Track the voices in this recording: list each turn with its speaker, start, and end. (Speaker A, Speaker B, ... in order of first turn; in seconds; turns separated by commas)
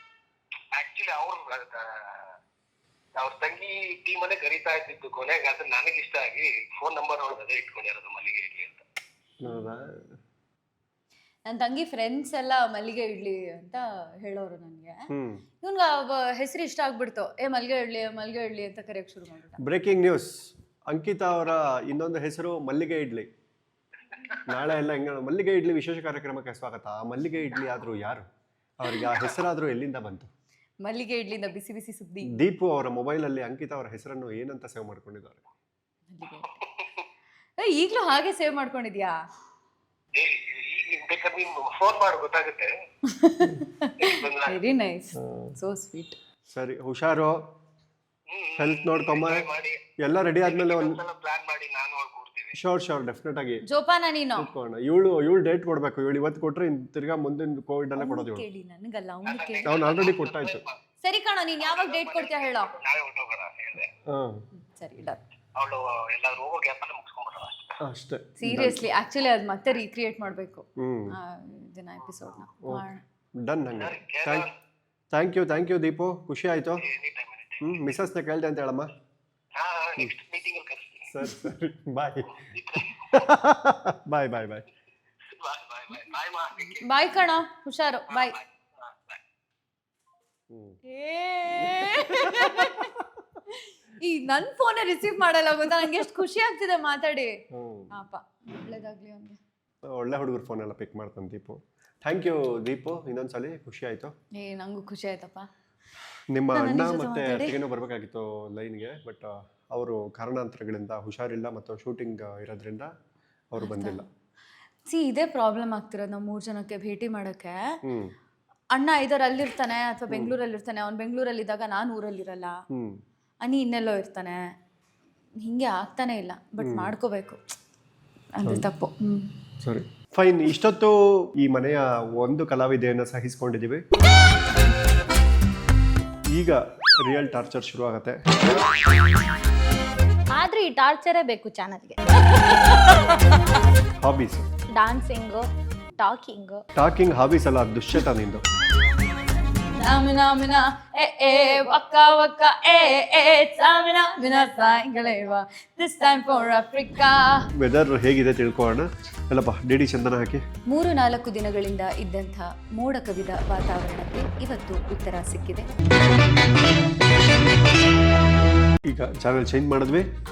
Speaker A: 0.7-2.3, Speaker A: 3.1-8.8, Speaker B: 9.4-10.2, Speaker C: 11.4-15.1, Speaker B: 15.1-15.4, Speaker C: 15.6-19.6, Speaker B: 19.6-23.3, Speaker B: 24.4-28.3, Speaker B: 28.8-30.3, Speaker C: 30.8-32.4, Speaker B: 32.3-35.4, Speaker C: 36.1-36.6, Speaker C: 37.6-39.1, Speaker A: 40.1-42.7, Speaker C: 43.0-46.2, Speaker A: 44.0-44.6, Speaker B: 45.2-45.5, Speaker B: 46.5-47.4, Speaker A: 48.3-49.8, Speaker B: 48.6-49.5, Speaker B: 50.0-51.0, Speaker A: 50.4-52.6, Speaker B: 52.5-53.6, Speaker C: 53.6-54.5, Speaker B: 54.4-58.4, Speaker C: 58.0-59.8, Speaker A: 59.2-60.7, Speaker B: 59.6-60.6, Speaker C: 61.0-62.7, Speaker A: 61.6-63.9, Speaker B: 64.0-64.5, Speaker C: 64.6-65.2, Speaker A: 65.5-67.8, Speaker B: 67.8-68.8, Speaker C: 68.4-73.0, Speaker B: 70.8-71.1, Speaker B: 72.6-74.5, Speaker A: 73.8-74.5, Speaker B: 75.1-76.8, Speaker A: 76.8-77.8, Speaker B: 77.6-78.9, Speaker A: 79.5-81.1, Speaker B: 81.1-84.7, Speaker A: 82.3-83.3, Speaker A: 85.3-86.9, Speaker C: 86.8-88.4, Speaker A: 88.1-89.2, Speaker B: 90.5-90.8, Speaker C: 90.9-92.9, Speaker B: 91.6-93.0, Speaker C: 93.5-97.4, Speaker B: 97.5-97.9, Speaker C: 97.9-99.4, Speaker B: 99.8-104.1, Speaker C: 104.4-105.5, Speaker B: 106.3-112.9, Speaker C: 106.5-107.6, Speaker B: 113.5-114.0, Speaker C: 113.6-114.0, Speaker C: 114.8-117.6, Speaker B: 117.8-118.1, Speaker C: 118.7-122.6, Speaker B: 122.7-123.0, Speaker C: 123.4-124.4, Speaker C: 125.4-127.4, Speaker B: 126.6-126.9, Speaker C: 128.3-129.3, Speaker B: 129.6-133.8, Speaker B: 136.3-138.2, Speaker D: 140.3-143.1, Speaker B: 144.0-144.5, Speaker D: 144.7-146.6, Speaker B: 146.8-148.4, Speaker C: 149.8-157.5, Speaker B: 157.6-160.4, Speaker C: 160.7-165.7, Speaker B: 168.8-170.1